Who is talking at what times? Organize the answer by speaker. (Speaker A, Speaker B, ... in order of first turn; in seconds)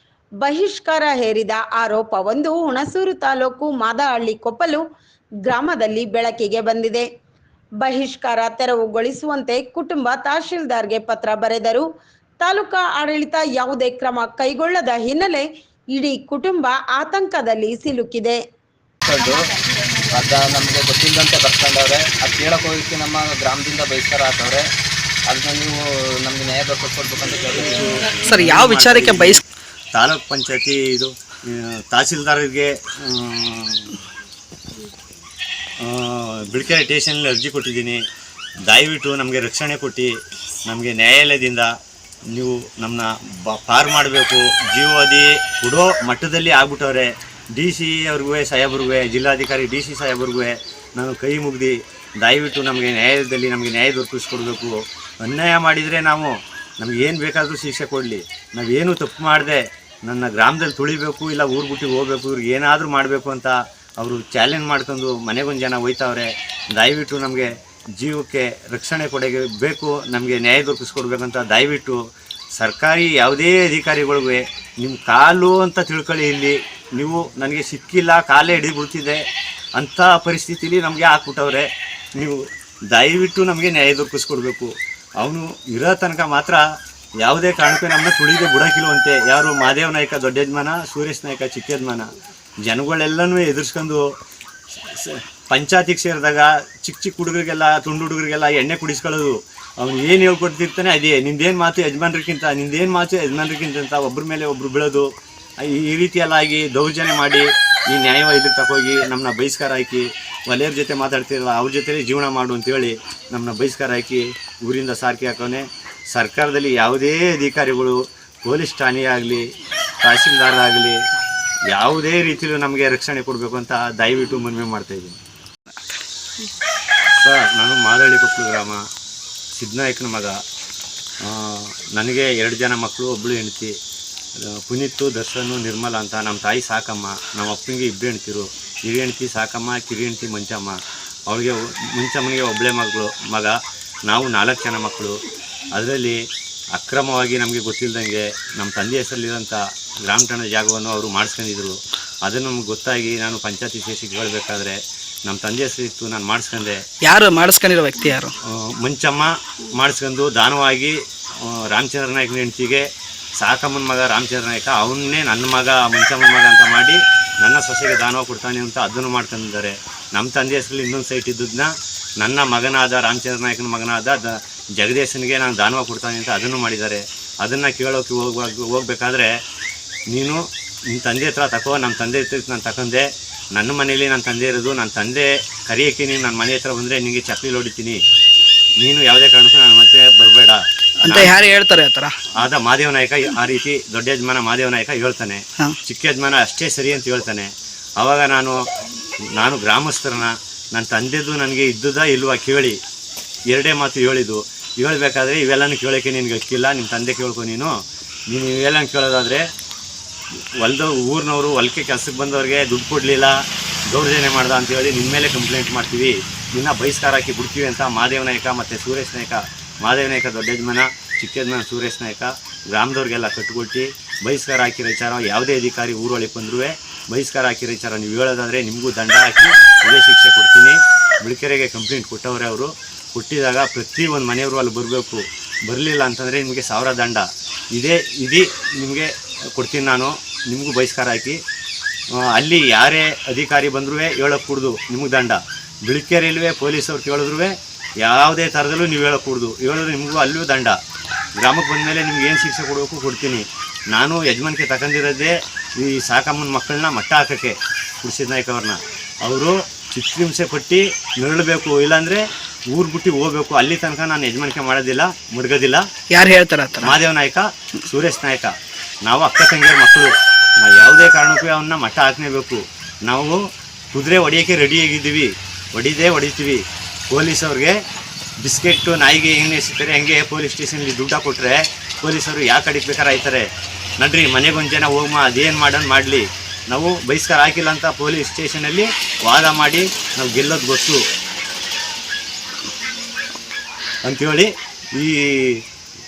Speaker A: 0.4-4.8, 5.4-7.0, 7.8-11.8, 12.4-18.4
Speaker B: 19.1-19.5, 20.1-24.6, 25.3-27.9
Speaker C: 27.7-29.4, 29.9-34.0, 35.8-38.0, 38.7-40.1, 40.7-41.7, 42.3-72.0, 72.5-79.2, 79.8-86.6, 87.2-92.1, 92.6-94.0, 94.8-105.1, 105.6-119.4, 120.0-121.0, 121.7-125.2, 127.2-128.8, 129.5-130.4, 131.2-133.7, 134.4-145.2, 145.7-146.2, 146.7-156.8, 158.4-162.8, 163.4-179.3, 180.1-188.0, 188.8-191.4, 192.3-198.6, 199.3-202.8, 203.5-207.8, 208.3-209.4, 210.6-241.4, 242.1-250.8, 251.4-265.8, 266.8-268.5, 269.0-273.4, 273.9-277.8, 278.4-283.5, 284.0-291.0, 294.0-295.6
Speaker D: 28.2-29.4, 157.0-158.3, 191.0-192.1, 266.1-266.9